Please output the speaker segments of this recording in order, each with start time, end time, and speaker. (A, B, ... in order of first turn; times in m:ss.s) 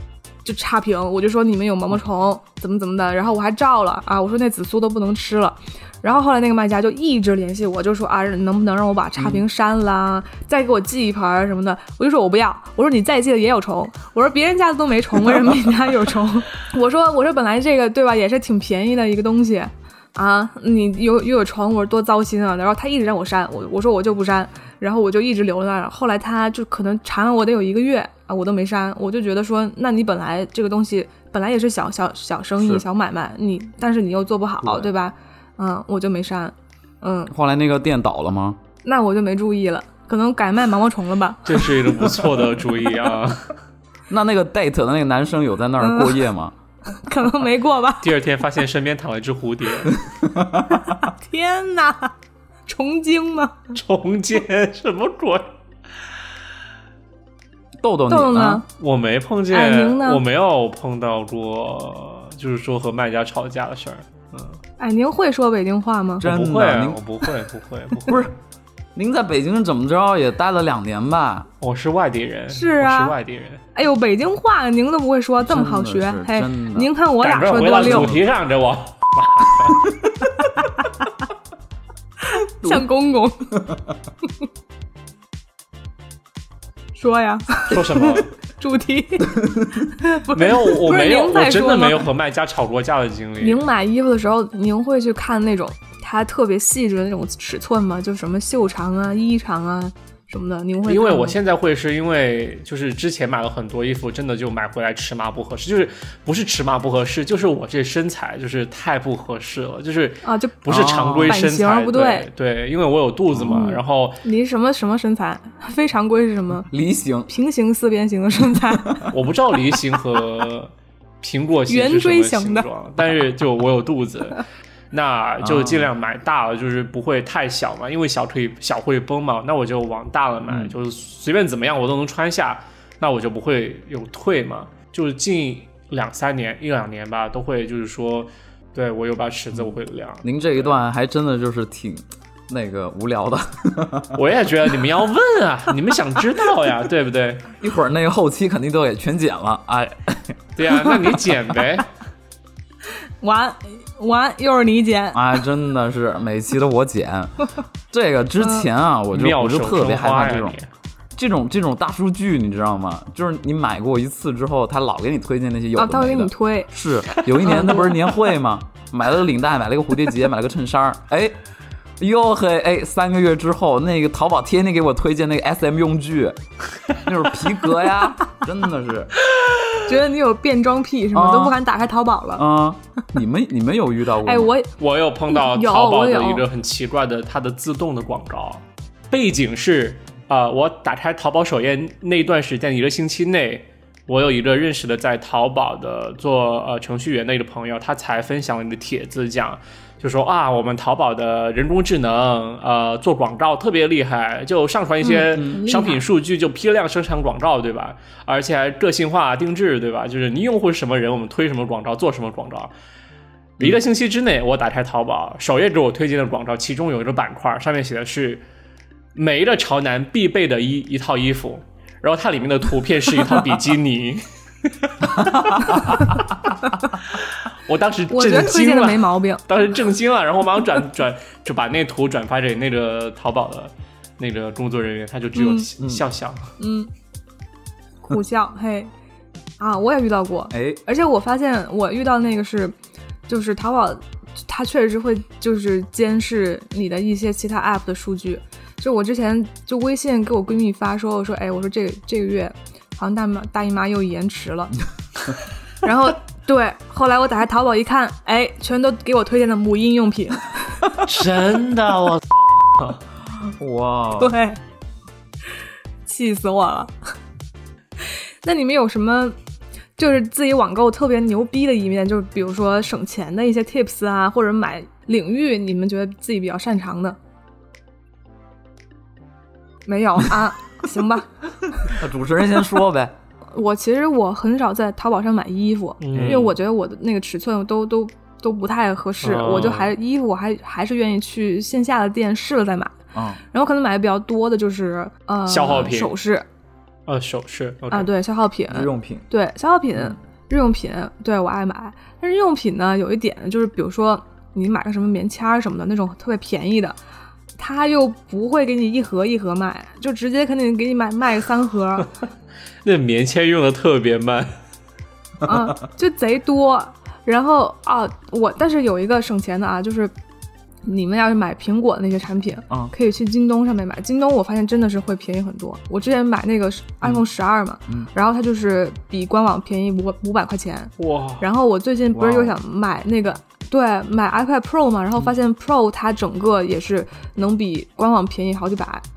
0:00.4-0:37.3 A
0:09.2-0:09.4 B
0:32.6-0:32.8 B
0:34.6-0:34.9 B
0:37.3-0:38.6 B
0:38.8-0:41.7 A
0:41.5-0:43.5 C
0:44.1-0:46.6 B
0:45.8-0:46.2 A
0:46.9-0:48.1 A
0:48.0-0:50.0 C
0:50.1-0:50.9 B
0:50.7-0:52.1 A
0:52.7-0:53.7 A
0:53.7-0:55.5 C
0:57.8-0:58.6 B
0:58.1-0:58.6 A
0:58.8-1:04.6 C
0:59.5-1:00.2 A
1:04.8-1:06.2 A
1:06.2-1:07.0 B
1:06.2-1:08.2 C
1:08.1-1:08.4 B
1:09.0-1:11.5 B
1:11.6-1:13.6 C
1:12.5-1:13.2 A
1:13.7-1:18.2 A
1:15.4-1:16.9 B
1:17.2-1:19.9 C
1:17.7-1:18.2 B
1:20.6-1:21.1 A
1:22.2-1:23.5 A
1:27.0-1:32.1 A
1:27.7-1:28.3 C
1:30.3-1:33.7 C
1:33.4-1:41.4 A
1:40.8-1:54.2 C
1:50.2-1:50.6 A
1:50.7-1:51.4 B
1:51.2-1:52.3 A
1:53.3-1:53.7 B
1:53.5-1:56.7 A
1:56.7-1:57.3 B
1:57.3-1:59.1 A
1:58.7-1:59.1 B
1:59.1-2:20.7 C
2:01.7-2:02.7 A
2:05.4-2:05.9 B
2:10.5-2:10.8 B
2:20.2-2:24.2 B
2:24.2-2:27.5 C
2:27.6-2:31.4 B
2:30.6-2:31.9 C
2:33.2-2:35.2 A
2:35.1-2:40.6 B
2:39.1-2:40.7 C
2:41.2-2:51.4 B
2:45.8-2:48.0 A
2:52.0-2:56.4 B
2:57.0-2:59.1 B
2:59.9-3:02.4 A
3:01.1-3:01.6 B
3:02.4-3:04.5 B
3:04.2-3:04.7 A
3:04.8-3:32.7 C
3:05.3-3:06.4 A
3:25.0-3:26.0 A
3:25.3-3:25.6 B
3:33.6-3:38.4 C
3:39.2-3:44.2 C
3:44.8-3:46.0 C
3:45.2-3:46.0 B
3:45.7-3:46.1 A
3:46.6-3:46.9 A
3:47.1-3:56.5 C
3:48.1-3:49.4 A
3:55.4-3:55.7 A
3:56.6-3:56.9 A
3:58.0-3:58.9 A
3:59.6-4:02.7 A
4:00.5-4:00.8 B
4:03.3-4:14.8 A
4:15.8-4:21.0 A
4:21.0-4:23.0 C
4:23.3-4:24.4 B
4:24.2-4:24.6 A
4:26.0-4:27.1 A
4:28.0-4:29.4 A
4:30.0-4:37.2 A
4:39.9-4:41.3 A
4:41.8-4:43.2 B
4:43.5-4:53.0 A
4:46.0-4:46.6 C
4:46.1-4:46.5 B
4:49.2-4:49.9 C
4:53.1-4:53.4 B
4:53.5-4:56.5 A
4:55.5-4:56.2 C
4:57.1-4:58.1 C
4:57.9-5:07.0 A
4:58.7-4:59.3 B
5:07.6-5:12.1 A
5:12.8-5:14.5 C
5:15.4-5:20.1 A
5:20.8-5:39.0 A
5:31.0-5:31.4 C
5:32.1-5:32.6 B